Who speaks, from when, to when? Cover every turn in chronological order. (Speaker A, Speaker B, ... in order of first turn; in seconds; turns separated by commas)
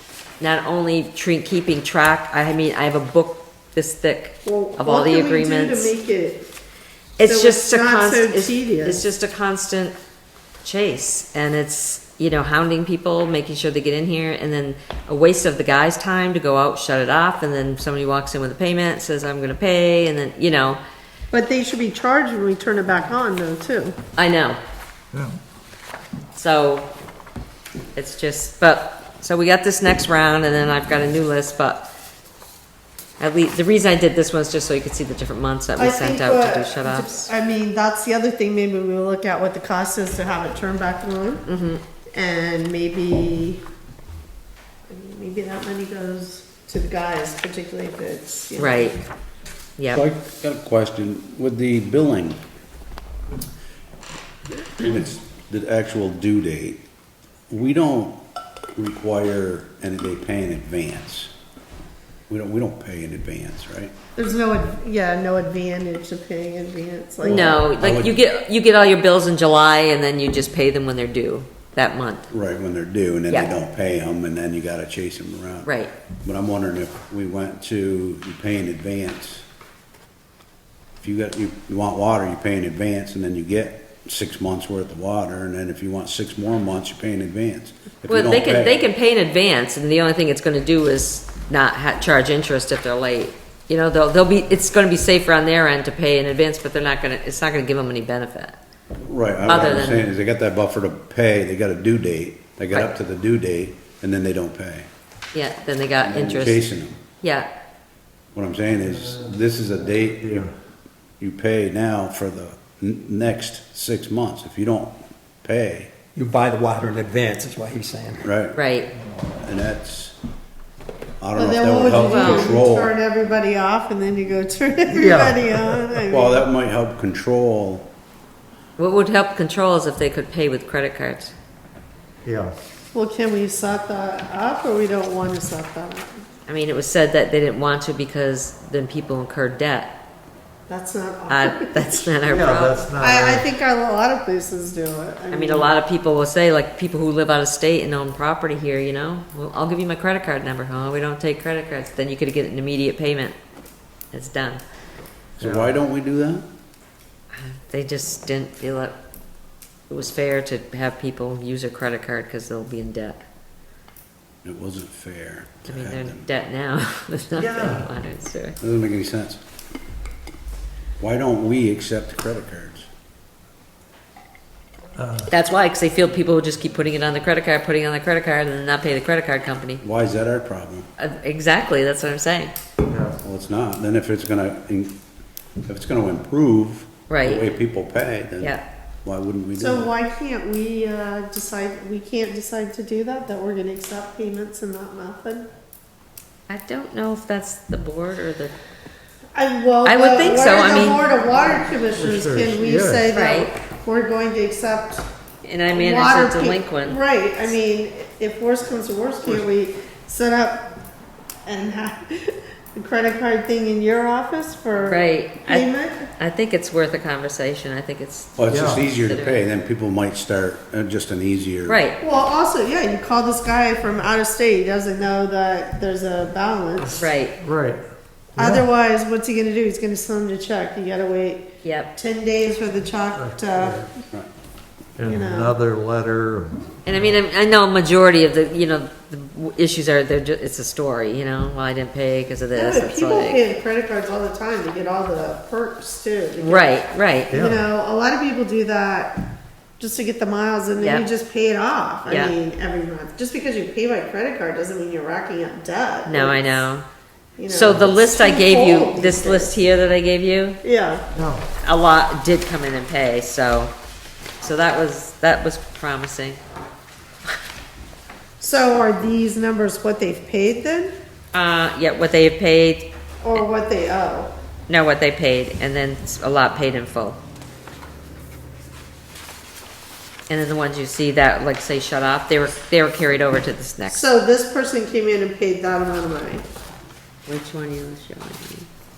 Speaker A: 0.4-5.9, Speaker B: 4.4-6.5, Speaker A: 7.2-9.9, Speaker B: 7.2-9.0, Speaker A: 10.6-20.8, Speaker B: 21.3-23.9, Speaker A: 24.2-24.6, Speaker A: 26.3-26.9, Speaker A: 27.9-31.9, Speaker A: 33.2-37.2, Speaker B: 35.8-41.5, Speaker A: 41.5-41.8, Speaker B: 42.1-43.6, Speaker B: 44.9-49.0, Speaker A: 48.6-49.0, Speaker A: 49.8-50.0, Speaker C: 49.9-52.4, Speaker C: 54.8-56.8, Speaker C: 57.5-58.2, Speaker C: 58.8-61.3, Speaker C: 62.3-63.9, Speaker B: 64.2-67.7, Speaker A: 67.2-72.3, Speaker C: 67.3-68.1, Speaker C: 72.3-75.7, Speaker A: 75.6-75.9, Speaker C: 76.2-79.4, Speaker C: 81.0-88.8, Speaker A: 88.1-98.5, Speaker C: 99.0-104.9, Speaker A: 99.5-100.1, Speaker A: 105.3-106.7, Speaker C: 106.0-107.0, Speaker A: 107.2-107.5, Speaker C: 108.3-110.5, Speaker D: 110.2-110.5, Speaker C: 111.2-115.9, Speaker E: 116.2-118.2, Speaker C: 118.2-118.6, Speaker A: 118.5-118.9, Speaker C: 119.2-120.2, Speaker C: 121.2-122.9, Speaker B: 121.3-126.4, Speaker A: 121.9-122.5, Speaker D: 124.9-125.8, Speaker C: 126.0-127.9, Speaker A: 128.8-131.3, Speaker D: 132.2-132.6, Speaker B: 132.9-136.1, Speaker A: 136.5-139.9, Speaker B: 140.7-142.2, Speaker A: 141.3-142.9, Speaker D: 142.3-143.4, Speaker B: 143.0-145.7, Speaker A: 145.3-153.3, Speaker A: 154.1-154.6, Speaker C: 155.4-156.4, Speaker D: 155.4-155.7, Speaker A: 157.3-158.9, Speaker A: 159.9-163.2, Speaker C: 164.4-166.2, Speaker A: 165.7-168.6, Speaker D: 167.4-167.9, Speaker C: 168.6-169.4, Speaker C: 171.0-172.9, Speaker D: 174.9-175.3, Speaker A: 175.3-179.8, Speaker C: 179.8-180.8, Speaker A: 181.0-182.5, Speaker D: 182.8-183.2, Speaker C: 183.2-185.0, Speaker C: 185.7-189.9, Speaker A: 187.1-187.5, Speaker B: 189.6-195.5, Speaker A: 196.5-198.5, Speaker B: 199.3-205.1, Speaker A: 199.8-201.1, Speaker D: 201.9-203.1, Speaker A: 203.1-203.5, Speaker A: 205.4-207.0, Speaker B: 205.7-210.7, Speaker B: 211.4-216.1, Speaker A: 214.8-219.4, Speaker C: 218.4-221.8, Speaker D: 218.5-218.9, Speaker A: 221.7-222.0, Speaker B: 222.0-227.0, Speaker D: 226.9-227.8, Speaker A: 227.0-227.3, Speaker B: 228.3-233.9, Speaker D: 228.4-228.7, Speaker A: 231.6-231.9, Speaker D: 233.2-233.8, Speaker D: 235.0-236.7, Speaker B: 235.0-235.6, Speaker A: 236.8-243.4, Speaker B: 242.5-249.2, Speaker A: 246.4-247.3, Speaker D: 247.3-247.6, Speaker B: 249.8-256.7, Speaker A: 250.8-251.0, Speaker A: 256.1-256.8, Speaker B: 257.4-259.5, Speaker A: 257.5-260.6, Speaker B: 260.6-261.0, Speaker D: 261.1-261.4, Speaker A: 261.6-263.7, Speaker A: 264.4-266.4, Speaker B: 268.4-270.9, Speaker A: 271.3-273.4, Speaker B: 273.2-274.3, Speaker A: 274.7-277.2, Speaker A: 280.3-284.1, Speaker B: 283.9-286.4, Speaker A: 287.3-288.7